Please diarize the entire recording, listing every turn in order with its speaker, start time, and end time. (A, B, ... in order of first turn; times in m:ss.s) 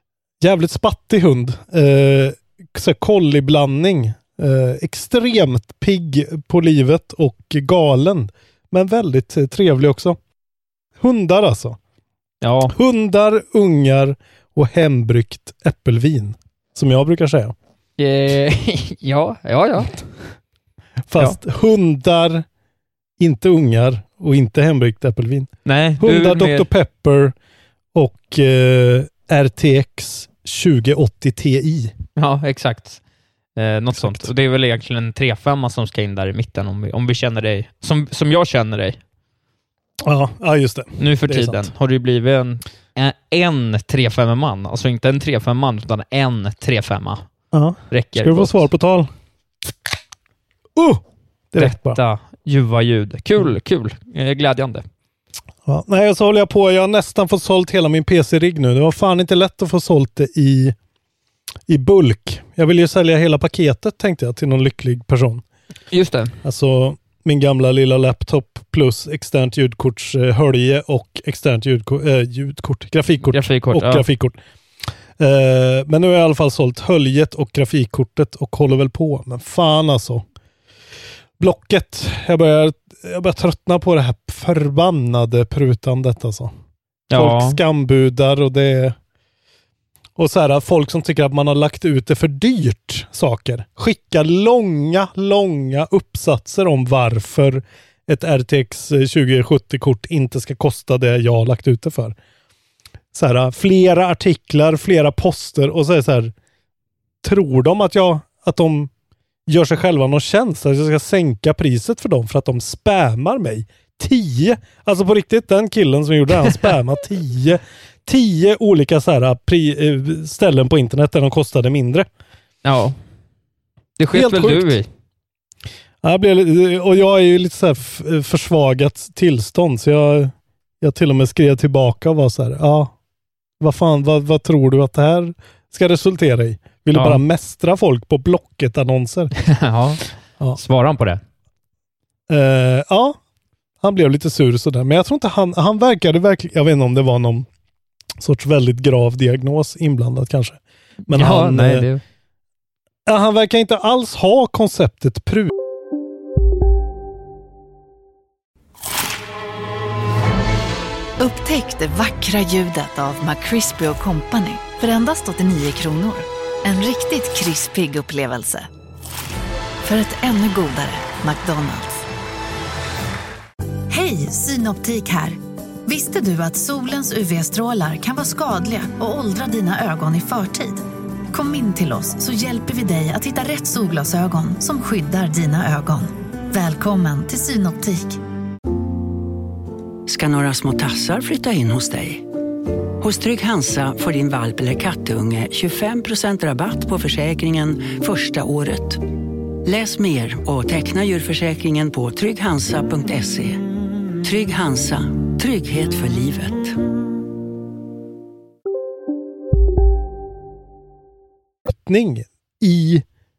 0:00.4-0:10.2 A
0:11.0-0:11.8 A
0:12.4-0:12.7 B
0:12.7-0:17.5 A
0:18.0-0:20.0 B
0:21.1-0:22.4 A
0:23.2-0:27.3 A
0:25.6-0:26.7 B
0:27.9-0:31.9 A
0:32.2-0:33.0 B
0:33.6-0:39.0 B
0:33.9-0:34.3 A
0:40.0-0:41.7 A
0:41.0-0:47.2 B
0:47.5-0:49.1 A
0:47.9-0:48.6 B
0:50.8-0:51.0 A
0:51.5-0:52.0 A
0:51.6-0:54.8 B
0:55.6-1:00.7 A
1:01.7-1:05.4 A
1:05.9-1:06.3 B
1:06.4-1:14.4 A
1:13.3-1:14.0 B
1:15.2-1:20.2 A
1:21.4-1:26.5 A
1:27.1-1:27.6 B
1:27.1-1:29.0 A
1:30.2-1:42.2 A
1:43.1-1:46.3 A
1:47.2-1:48.9 A
1:49.5-2:02.1 A
2:02.6-2:03.0 B
2:04.0-2:04.9 B
2:04.1-2:04.8 A
2:06.0-2:12.9 A
2:13.6-2:19.3 A
2:16.9-2:17.2 B
2:19.4-2:21.2 B
2:22.3-2:23.2 A
2:23.8-2:27.5 A
2:28.2-2:31.9 A
2:31.1-2:32.0 B
2:33.0-2:35.5 A
2:41.2-2:48.7 C
2:49.8-2:52.0 C
2:53.9-3:08.2 C
3:10.1-3:12.2 D
3:13.0-3:18.9 D
3:19.7-3:23.5 D
3:24.2-3:26.7 D
3:31.6-3:33.0 A